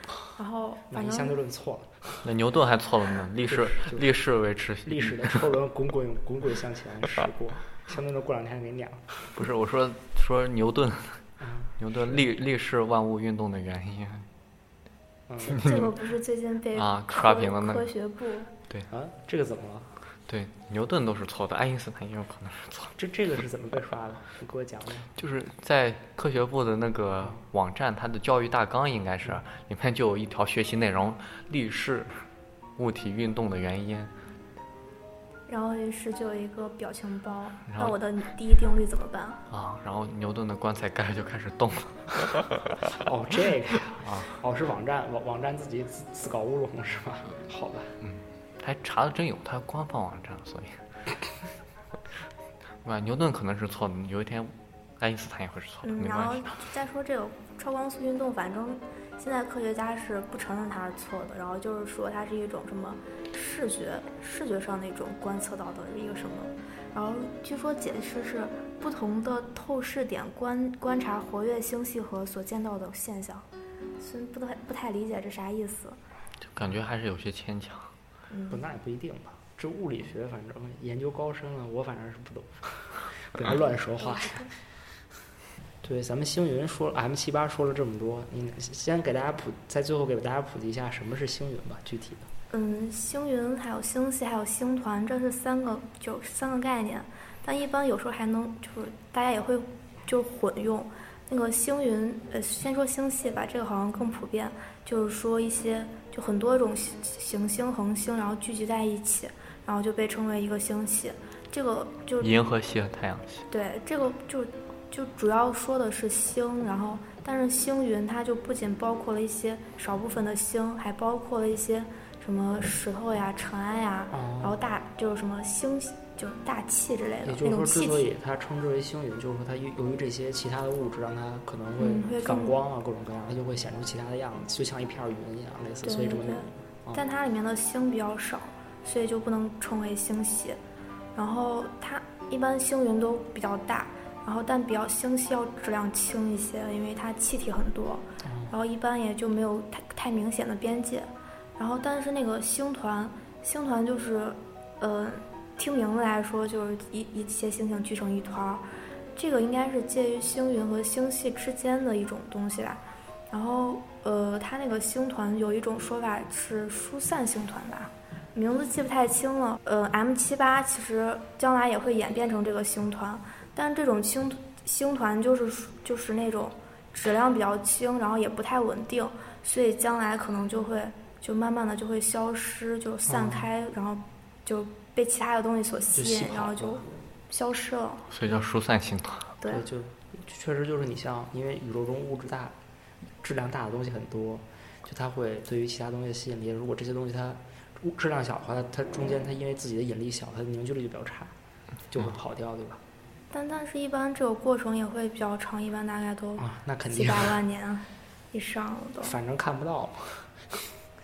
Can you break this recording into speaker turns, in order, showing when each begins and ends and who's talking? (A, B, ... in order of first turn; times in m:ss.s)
0:00.4-0:01.4 A
0:00.9-0:02.3 B
0:02.2-0:05.4 C
0:03.5-0:04.2 B
0:04.8-0:09.1 B
0:09.3-0:11.2 C
0:11.4-0:11.8 B
0:11.8-0:14.3 C
0:15.3-0:15.6 B
0:15.4-0:18.5 A
0:15.6-0:15.9 C
0:16.7-0:17.9 C
0:18.9-0:19.9 B
0:20.3-0:22.9 C
0:23.0-0:25.1 B
0:25.2-0:32.1 C
0:32.8-0:34.1 C
0:35.5-0:39.4 A
0:37.7-0:38.0 C
0:39.5-0:42.8 C
0:42.9-0:48.0 B
0:44.0-0:44.4 C
0:48.0-0:50.8 C
0:52.8-0:56.6 C
0:55.8-1:13.5 A
1:14.0-1:16.0 A
1:16.5-1:17.9 C
1:18.3-1:18.6 A
1:18.5-1:24.5 B
1:24.0-1:24.5 A
1:25.8-1:32.3 B
1:32.5-1:52.4 A
1:52.2-1:53.4 C
1:53.5-2:08.1 A
2:04.1-2:04.6 B
2:07.2-2:17.0 B
2:11.8-2:12.6 A
2:15.8-2:20.6 A
2:21.2-3:08.1 A
2:28.2-2:28.6 B
3:03.1-3:03.5 B
3:05.9-3:06.9 B
3:08.1-3:09.3 C
3:09.4-3:09.7 A
3:09.4-3:12.6 B
3:13.2-3:21.3 B
3:21.9-3:22.8 B
3:23.3-3:29.2 A
3:26.4-3:27.4 B
3:29.0-3:30.6 B